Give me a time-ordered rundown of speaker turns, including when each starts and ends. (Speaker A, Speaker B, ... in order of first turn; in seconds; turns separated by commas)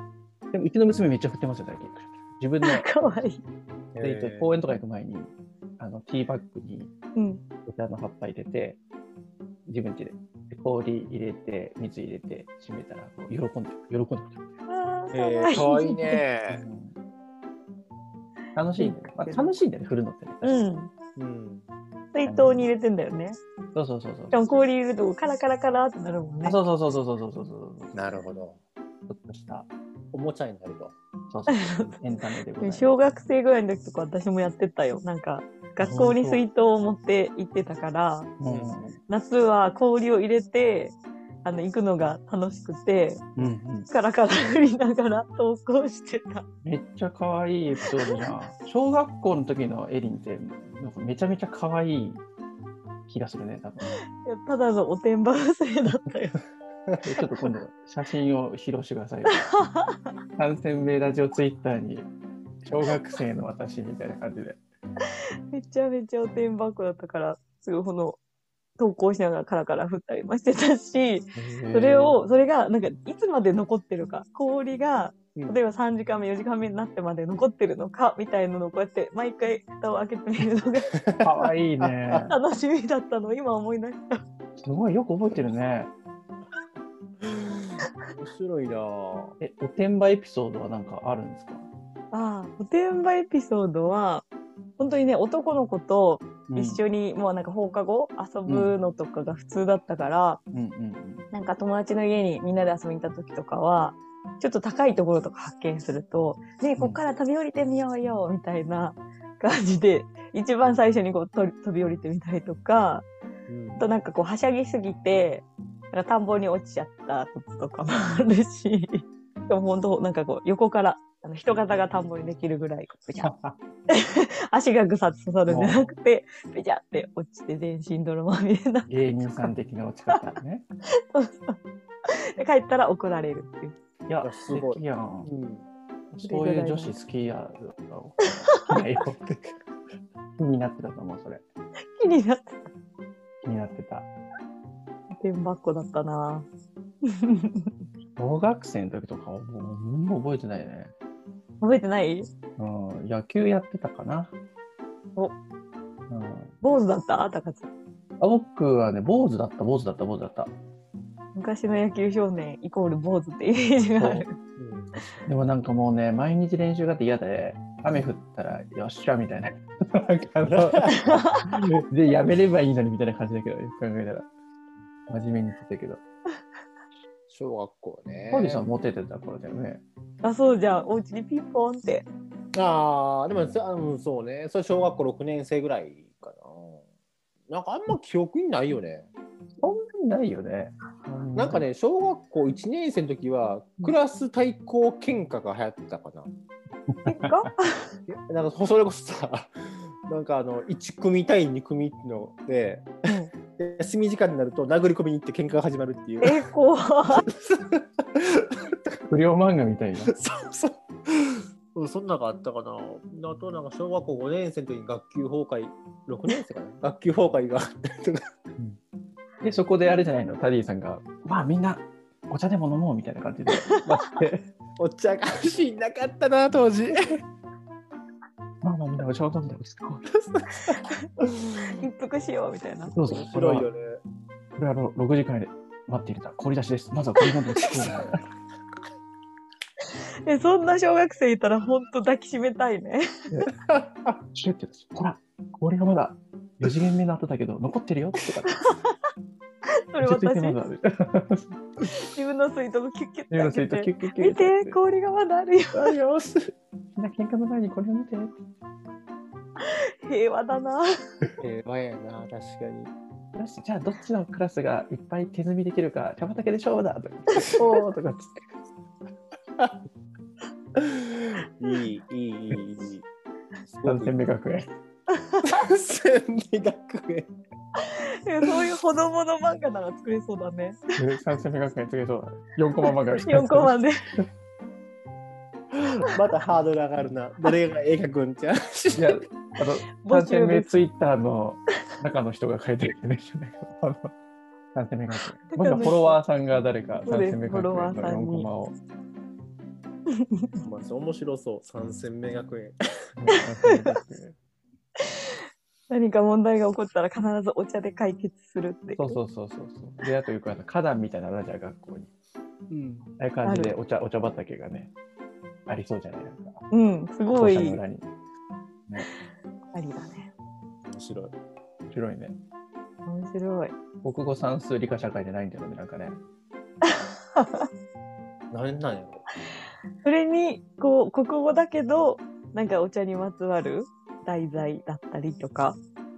Speaker A: 0.5-2.9, Speaker B: 2.6-3.4, Speaker C: 3.9-4.5, Speaker A: 4.0-6.9, Speaker B: 7.1-7.4, Speaker A: 7.6-8.8, Speaker A: 9.7-14.5, Speaker B: 14.7-16.2, Speaker C: 15.1-16.6, Speaker A: 16.5-16.9, Speaker A: 18.5-20.7, Speaker B: 18.8-19.5, Speaker B: 20.4-20.9, Speaker C: 21.2-21.6, Speaker B: 22.1-23.4, Speaker A: 22.2-22.6, Speaker A: 23.7-24.4, Speaker B: 24.3-26.6, Speaker A: 26.4-28.2, Speaker C: 27.9-28.6, Speaker A: 29.1-29.7, Speaker C: 30.1-30.9, Speaker A: 31.3-33.0, Speaker B: 31.5-32.0, Speaker B: 32.6-38.3, Speaker A: 35.8-36.4, Speaker A: 38.4-39.0, Speaker C: 38.4-38.9, Speaker B: 39.1-46.4, Speaker A: 43.4-43.9, Speaker A: 46.6-52.2, Speaker B: 47.8-48.3, Speaker A: 53.1-53.9, Speaker B: 53.9-56.4, Speaker A: 57.0-59.5, Speaker B: 59.3-60.0, Speaker A: 60.4-62.1, Speaker A: 62.6-64.6, Speaker B: 65.5-68.2, Speaker B: 68.8-81.0, Speaker A: 71.3-72.2, Speaker A: 81.2-82.3, Speaker C: 81.8-82.3, Speaker B: 82.3-84.2, Speaker A: 84.6-85.9, Speaker C: 87.2-89.3, Speaker A: 89.4-91.7, Speaker B: 92.1-94.2, Speaker B: 94.8-100.4, Speaker A: 96.5-96.8, Speaker A: 98.5-98.7, Speaker A: 100.5-101.3, Speaker B: 101.3-113.0, Speaker C: 113.5-113.8, Speaker B: 113.8-123.3, Speaker A: 123.2-123.6, Speaker B: 123.9-129.5, Speaker A: 125.5-125.8, Speaker A: 128.9-130.6, Speaker B: 130.1-130.3, Speaker B: 131.1-133.7, Speaker A: 134.1-135.3, Speaker C: 134.2-135.6, Speaker A: 136.1-139.5, Speaker B: 136.2-136.9, Speaker B: 138.3-138.8, Speaker A: 140.4-141.4, Speaker B: 141.9-142.7, Speaker A: 143.4-144.1, Speaker B: 145.2-146.5, Speaker B: 147.2-147.7, Speaker A: 148.2-150.9, Speaker B: 151.6-152.3, Speaker A: 152.6-154.3, Speaker A: 156.1-156.5, Speaker B: 156.6-157.7, Speaker A: 158.2-160.5, Speaker B: 161.3-164.3, Speaker A: 163.9-164.2, Speaker C: 164.6-165.3, Speaker A: 165.2-170.9, Speaker C: 170.4-171.1, Speaker B: 170.9-171.4, Speaker A: 171.5-174.2, Speaker A: 175.1-176.0, Speaker C: 177.3-178.7, Speaker A: 178.3-179.8, Speaker B: 180.2-182.0, Speaker C: 182.5-186.8, Speaker C: 187.5-189.1, Speaker A: 189.6-191.6, Speaker C: 191.3-196.3, Speaker A: 196.9-197.4, Speaker B: 197.1-197.9, Speaker C: 198.1-199.5, Speaker C: 200.1-206.4, Speaker B: 206.2-207.2, Speaker C: 207.3-209.0, Speaker A: 209.1-210.1, Speaker C: 210.1-218.2, Speaker A: 219.4-224.5, Speaker C: 224.8-227.2, Speaker A: 228.6-230.1, Speaker C: 230.2-231.3, Speaker B: 230.6-231.1, Speaker B: 231.6-232.9, Speaker A: 232.9-233.7, Speaker C: 233.1-234.0, Speaker A: 234.6-238.2, Speaker B: 240.2-243.4, Speaker C: 243.6-244.2, Speaker A: 244.3-248.7, Speaker B: 248.5-248.8, Speaker B: 249.9-250.6, Speaker A: 250.0-251.5, Speaker B: 251.9-255.9, Speaker A: 253.3-254.8, Speaker A: 255.7-256.3, Speaker A: 256.9-258.4, Speaker B: 259.6-260.9, Speaker C: 261.4-262.9, Speaker A: 263.3-268.5, Speaker C: 270.8-273.0, Speaker C: 273.6-274.2, Speaker A: 273.8-274.7, Speaker C: 275.4-277.3, Speaker B: 277.8-280.8, Speaker A: 281.0-284.2, Speaker B: 282.9-284.0, Speaker C: 286.0-289.2, Speaker A: 288.9-294.1, Speaker B: 290.0-290.7, Speaker A: 294.7-298.8, Speaker B: 295.5-296.2, Speaker B: 297.1-298.5, Speaker C: 300.6-302.8, Speaker A: 303.2-304.4, Speaker B: 303.5-304.0, Speaker B: 305.9-309.2, Speaker A: 309.0-312.1, Speaker C: 312.7-313.1, Speaker A: 313.2-314.9, Speaker B: 313.4-313.7, Speaker A: 315.7-316.6, Speaker B: 316.7-317.8, Speaker A: 317.3-318.0, Speaker B: 319.7-320.3, Speaker C: 320.8-321.3, Speaker A: 321.9-322.4, Speaker B: 323.1-323.7, Speaker A: 324.0-326.2, Speaker B: 327.4-327.7, Speaker C: 328.5-329.2, Speaker B: 330.0-335.8